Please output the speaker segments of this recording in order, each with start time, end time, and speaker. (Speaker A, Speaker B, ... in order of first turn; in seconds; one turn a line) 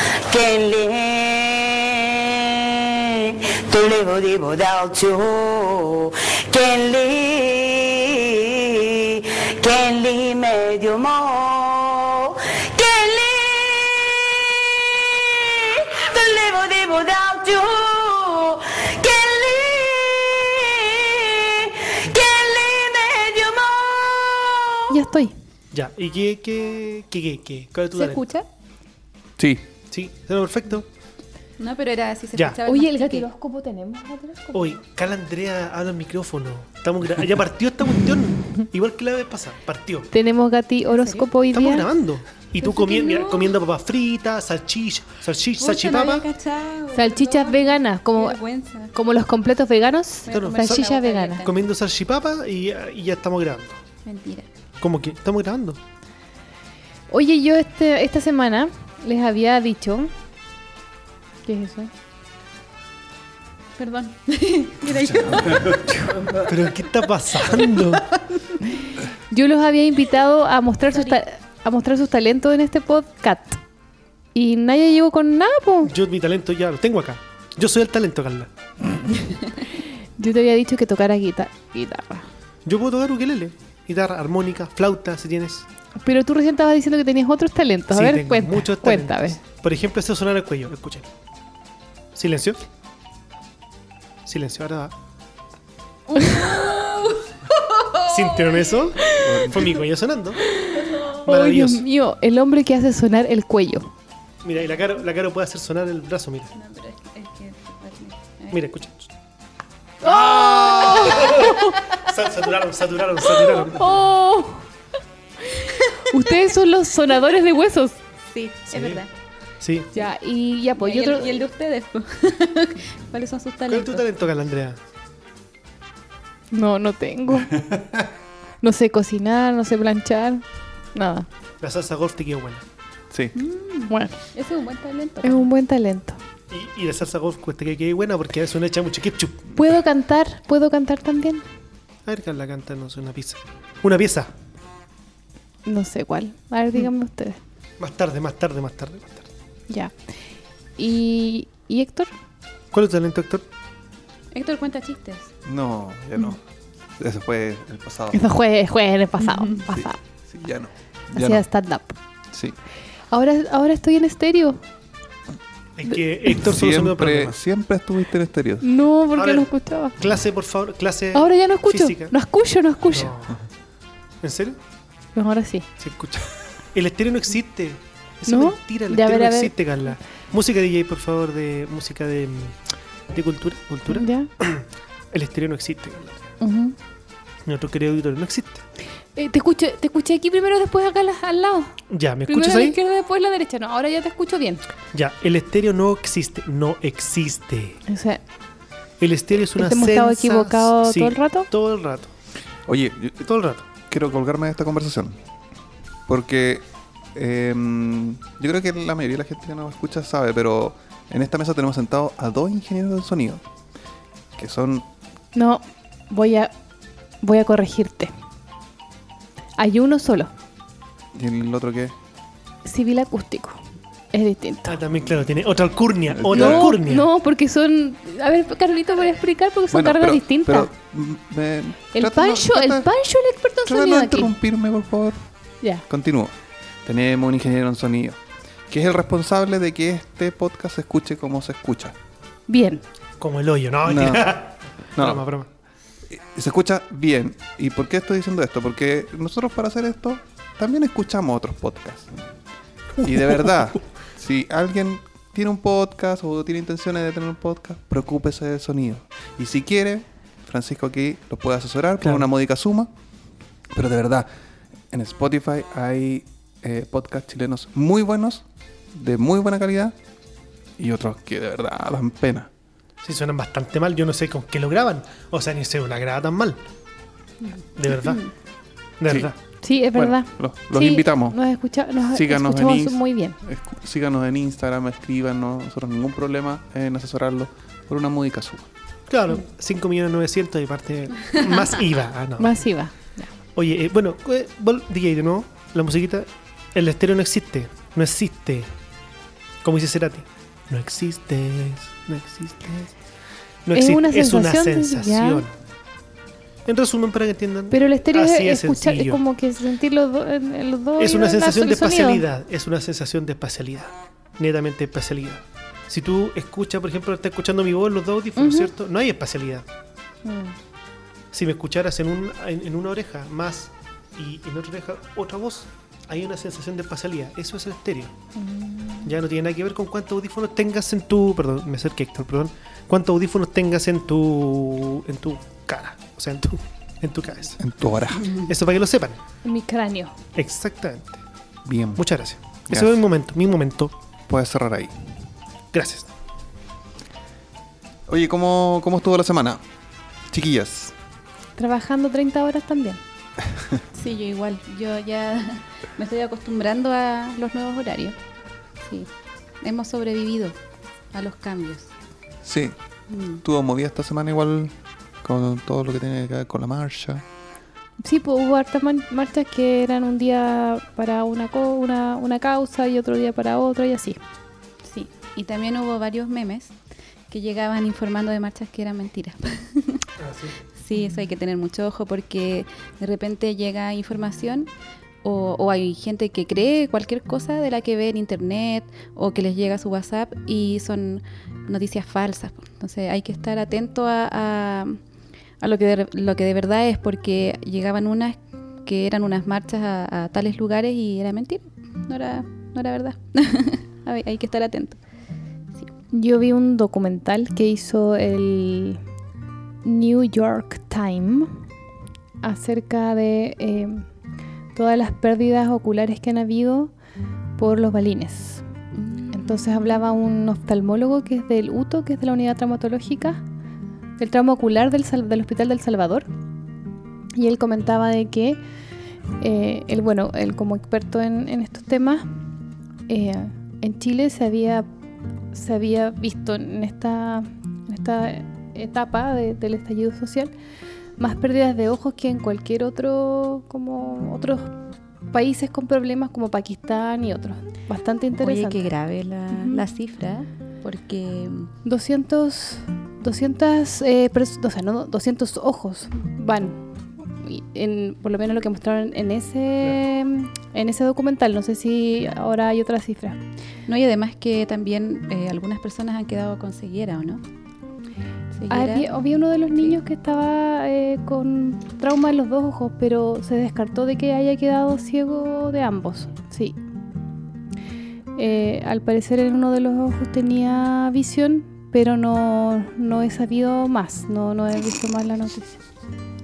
Speaker A: 0.3-25.0
Speaker B: 24.9-25.4
Speaker C: 25.7-28.2
Speaker D: 27.9-28.5
Speaker E: 29.4-29.7
Speaker C: 29.9-30.9
Speaker D: 31.6-33.3
Speaker B: 32.6-34.8
Speaker C: 34.5-40.1
Speaker B: 40.1-41.9
Speaker D: 40.9-41.3
Speaker C: 41.5-46.3
Speaker D: 42.6-43.5
Speaker D: 45.6-48.9
Speaker B: 46.9-48.4
Speaker B: 48.9-51.5
Speaker D: 50.2-51.5
Speaker C: 50.3-50.9
Speaker C: 51.4-53.8
Speaker D: 54.1-54.5
Speaker C: 54.8-55.8
Speaker B: 57.1-60.1
Speaker B: 61.5-61.9
Speaker D: 63.8-66.3
Speaker E: 64.9-65.8
Speaker C: 66.5-68.0
Speaker D: 67.5-68.6
Speaker B: 69.3-73.6
Speaker B: 74.3-75.9
Speaker C: 75.9-78.5
Speaker B: 80.2-82.3
Speaker C: 82.7-85.7
Speaker B: 86.0-89.4
Speaker C: 87.9-91.1
Speaker C: 92.2-92.6
Speaker C: 94.3-94.9
Speaker D: 96.2-98.6
Speaker C: 98.1-100.4
Speaker E: 99.2-99.7
Speaker D: 100.6-101.2
Speaker B: 101.2-103.9
Speaker C: 101.3-101.8
Speaker C: 104.4-106.5
Speaker D: 106.5-108.6
Speaker C: 108.5-109.1
Speaker B: 110.0-111.7
Speaker D: 110.4-111.7
Speaker C: 111.1-114.0
Speaker B: 113.7-114.6
Speaker B: 116.0-118.0
Speaker D: 118.3-119.1
Speaker C: 118.7-119.0
Speaker C: 119.6-119.9
Speaker B: 119.9-121.3
Speaker D: 120.8-124.1
Speaker C: 123.7-124.8
Speaker B: 126.5-127.5
Speaker E: 127.6-128.0
Speaker B: 128.6-131.3
Speaker C: 131.6-132.6
Speaker D: 133.3-135.5
Speaker B: 133.9-134.2
Speaker B: 135.2-136.2
Speaker C: 136.5-139.4
Speaker B: 139.6-141.4
Speaker C: 142.1-144.3
Speaker B: 145.7-147.4
Speaker C: 147.8-149.3
Speaker B: 149.7-150.0
Speaker B: 150.8-152.1
Speaker C: 152.7-153.4
Speaker D: 154.3-155.3
Speaker E: 155.4-156.4
Speaker E: 157.0-158.2
Speaker B: 158.1-160.0
Speaker E: 159.7-161.4
Speaker B: 161.2-162.0
Speaker B: 163.1-164.6
Speaker C: 165.8-167.4
Speaker E: 166.4-168.7
Speaker B: 168.6-170.0
Speaker C: 169.2-169.5
Speaker C: 170.0-172.1
Speaker B: 171.1-173.1
Speaker C: 172.9-173.4
Speaker C: 174.2-174.6
Speaker B: 175.2-175.7
Speaker C: 175.8-182.6
Speaker B: 178.3-179.6
Speaker C: 183.1-186.2
Speaker B: 183.9-184.3
Speaker B: 186.4-186.8
Speaker C: 187.5-188.6
Speaker B: 189.2-194.7
Speaker C: 191.9-192.8
Speaker C: 194.9-197.8
Speaker B: 197.9-198.2
Speaker C: 199.0-202.1
Speaker B: 199.4-201.5
Speaker E: 202.7-203.3
Speaker C: 203.2-203.6
Speaker E: 203.8-205.2
Speaker E: 206.1-213.4
Speaker E: 214.4-214.9
Speaker B: 215.3-216.5
Speaker B: 217.2-218.1
Speaker B: 219.6-220.3
Speaker E: 221.1-222.0
Speaker B: 222.7-223.6
Speaker B: 224.1-224.8
Speaker C: 224.7-227.1
Speaker E: 226.1-226.8
Speaker B: 226.3-230.7
Speaker E: 229.7-232.9
Speaker B: 231.9-234.3
Speaker E: 233.7-235.3
Speaker E: 235.9-236.3
Speaker E: 236.8-242.0
Speaker B: 242.5-242.8
Speaker C: 243.2-245.5
Speaker E: 243.8-244.4
Speaker E: 245.0-245.2
Speaker E: 246.1-252.1
Speaker E: 253.0-262.9
Speaker E: 263.7-264.3
Speaker E: 264.9-270.0
Speaker E: 270.8-272.5
Speaker C: 273.0-276.6
Speaker C: 277.8-278.2
Speaker C: 279.0-279.4
Speaker B: 279.6-283.4
Speaker E: 279.9-281.4
Speaker E: 282.1-288.7
Speaker C: 289.1-292.6
Speaker B: 292.4-293.3
Speaker C: 293.6-298.7
Speaker C: 299.6-302.9
Speaker C: 303.6-305.5
Speaker B: 303.7-305.4
Speaker C: 306.7-309.2
Speaker B: 307.7-312.2
Speaker C: 311.0-319.7
Speaker B: 318.4-318.7
Speaker B: 320.2-320.6
Speaker C: 321.3-328.1
Speaker B: 328.4-329.1
Speaker C: 329.1-337.6
Speaker E: 337.6-338.3
Speaker C: 338.4-339.2
Speaker B: 339.4-340.2
Speaker C: 340.4-341.2
Speaker E: 341.6-342.0
Speaker C: 342.0-343.9
Speaker E: 342.7-343.0
Speaker E: 344.3-344.9
Speaker C: 345.7-346.1
Speaker E: 348.1-349.6
Speaker E: 350.3-350.9
Speaker B: 351.6-353.0
Speaker D: 353.9-358.2
Speaker D: 358.8-359.1
Speaker D: 359.6-360.6
Speaker D: 361.1-361.9
Speaker E: 362.4-362.8
Speaker D: 363.1-363.4
Speaker E: 363.4-367.2
Speaker B: 368.0-374.2
Speaker D: 374.9-376.7
Speaker D: 377.3-380.0
Speaker C: 380.2-380.6
Speaker D: 380.8-384.7
Speaker D: 385.2-395.0
Speaker D: 395.6-405.0
Speaker B: 406.1-409.0
Speaker B: 409.8-411.5
Speaker B: 412.4-414.1
Speaker B: 414.8-416.9
Speaker B: 417.6-418.6
Speaker D: 418.9-419.6
Speaker B: 419.3-423.4
Speaker B: 424.2-426.3
Speaker B: 427.4-428.6
Speaker B: 429.4-432.3
Speaker B: 433.1-434.9
Speaker B: 435.5-440.5
Speaker B: 441.2-444.7
Speaker B: 445.3-448.9
Speaker D: 448.4-451.7
Speaker B: 449.5-449.8
Speaker B: 451.9-456.8
Speaker B: 457.4-463.4
Speaker D: 463.9-467.4
Speaker D: 468.6-469.1
Speaker B: 468.7-476.8
Speaker B: 478.4-485.8